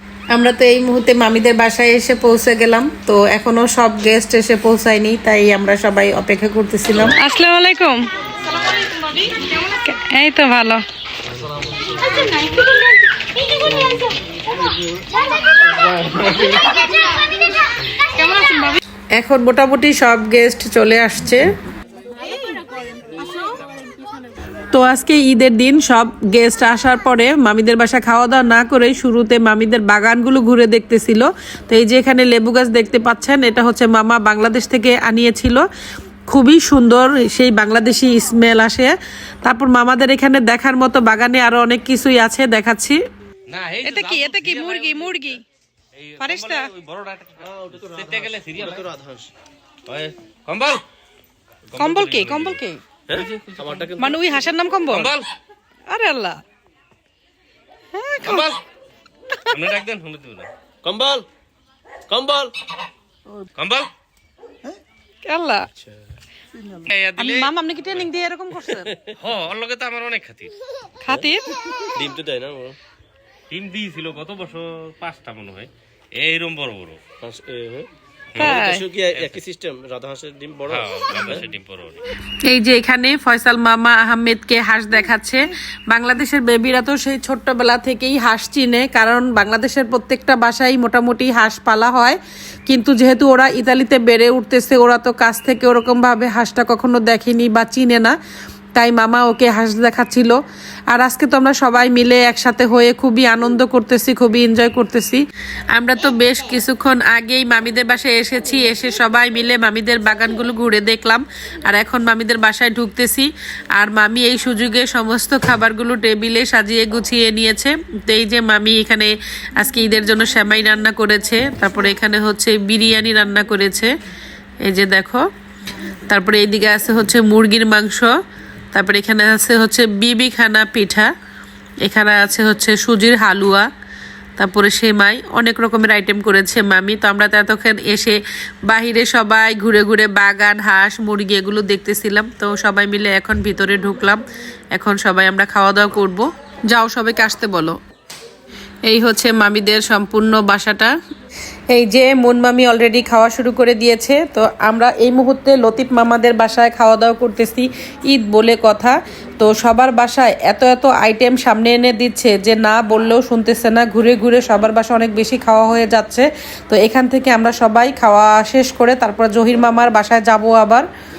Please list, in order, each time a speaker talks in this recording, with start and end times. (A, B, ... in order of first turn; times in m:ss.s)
0:00.3-0:07.2 A
0:07.2-0:08.0 B
0:08.9-0:10.8 B
0:12.1-0:12.8 B
0:18.1-0:18.8 B
0:19.2-0:21.4 A
0:22.2-0:23.6 B
0:24.7-0:35.6 A
0:36.3-0:43.0 A
0:43.5-0:45.3 C
0:43.8-0:45.4 B
0:45.9-0:48.9 C
0:46.2-0:46.7 B
0:47.4-0:49.3 D
0:49.9-0:50.8 C
0:51.7-0:53.9 C
0:51.8-0:52.8 B
0:53.1-0:54.3 D
0:54.0-0:55.1 B
0:54.9-0:55.3 C
0:55.9-0:56.4 B
0:57.9-0:58.5 B
0:58.2-0:58.6 C
0:59.5-1:00.5 C
1:00.8-1:01.2 D
1:02.1-1:02.7 D
1:03.6-1:03.9 C
1:05.2-1:05.7 B
1:06.8-1:08.1 C
1:07.2-1:08.9 B
1:08.6-1:09.2 D
1:09.2-1:10.5 C
1:11.0-1:11.6 B
1:11.9-1:12.8 D
1:13.5-1:17.0 C
1:17.2-1:21.4 D
1:18.3-1:19.4 C
1:18.4-1:18.9 B
1:20.7-1:22.0 C
1:22.5-1:38.2 A
1:38.8-1:40.4 A
1:40.9-1:45.2 A
1:45.7-2:03.9 A
2:04.6-2:05.2 A
2:06.1-2:08.1 A
2:08.7-2:11.1 A
2:11.8-2:13.7 A
2:14.4-2:24.2 A
2:24.7-2:27.8 A
2:28.9-2:30.9 A
2:31.7-2:50.8 A